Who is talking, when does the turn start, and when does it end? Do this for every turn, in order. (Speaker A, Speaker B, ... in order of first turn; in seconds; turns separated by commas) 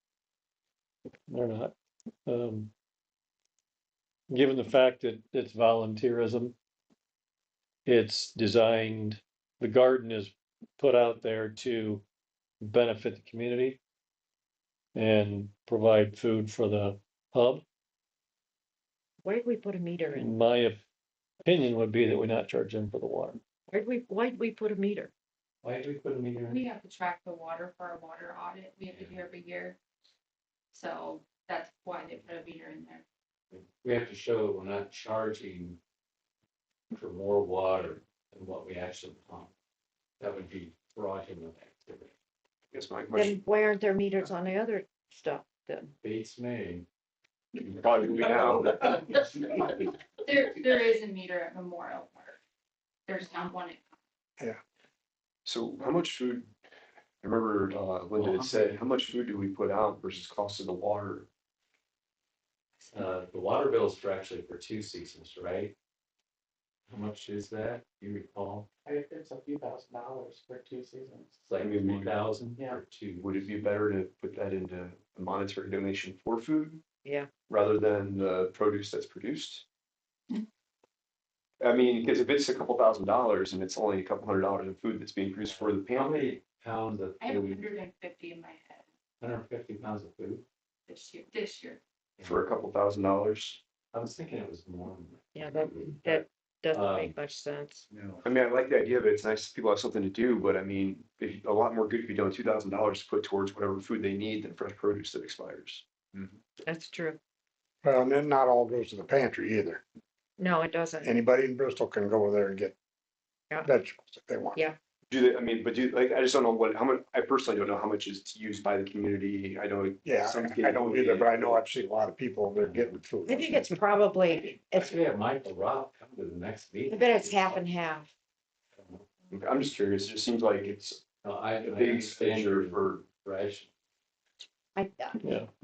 Speaker A: 1.3-1.7, Speaker A: 2.2-2.7, Speaker A: 4.3-6.5, Speaker A: 7.8-12.0, Speaker A: 12.6-13.8, Speaker A: 14.9-17.6, Speaker B: 19.2-20.4, Speaker A: 20.1-20.8, Speaker A: 21.4-23.4, Speaker B: 23.7-25.1, Speaker C: 25.6-26.6, Speaker D: 26.5-29.8, Speaker C: 28.9-29.2, Speaker D: 30.7-33.0, Speaker C: 33.5-35.8, Speaker C: 36.9-39.5, Speaker C: 40.2-42.1, Speaker E: 42.7-43.4, Speaker B: 43.1-45.9, Speaker C: 46.0-46.9, Speaker E: 47.6-48.9, Speaker C: 47.6-49.6, Speaker D: 50.2-52.4, Speaker D: 53.1-53.9, Speaker E: 55.4-56.5, Speaker E: 57.2-61.3, Speaker C: 58.1-58.8, Speaker C: 62.9-65.7, Speaker C: 66.9-68.7, Speaker F: 68.8-71.4, Speaker C: 71.4-73.4, Speaker E: 71.6-72.2, Speaker F: 72.5-72.8, Speaker E: 73.2-76.8, Speaker B: 77.0-77.3, Speaker E: 77.5-79.6, Speaker E: 81.6-86.3, Speaker C: 85.4-87.7, Speaker D: 87.2-88.8, Speaker C: 89.2-90.4, Speaker D: 90.9-91.8, Speaker C: 92.2-92.5, Speaker E: 92.2-93.6, Speaker C: 93.9-97.1, Speaker B: 95.3-97.8, Speaker C: 97.9-98.2, Speaker E: 98.2-105.8, Speaker C: 106.1-106.4, Speaker B: 106.6-107.2, Speaker G: 107.8-109.8, Speaker B: 110.4-111.1, Speaker G: 111.0-112.8, Speaker G: 113.6-114.6, Speaker E: 115.1-121.6, Speaker G: 120.0-123.7, Speaker C: 122.6-123.0, Speaker B: 123.2-125.0, Speaker C: 124.7-127.6, Speaker B: 126.9-128.1, Speaker C: 128.8-129.1, Speaker E: 129.3-131.0, Speaker C: 131.2-133.7, Speaker E: 131.6-133.0, Speaker B: 134.7-135.2, Speaker A: 135.2-135.5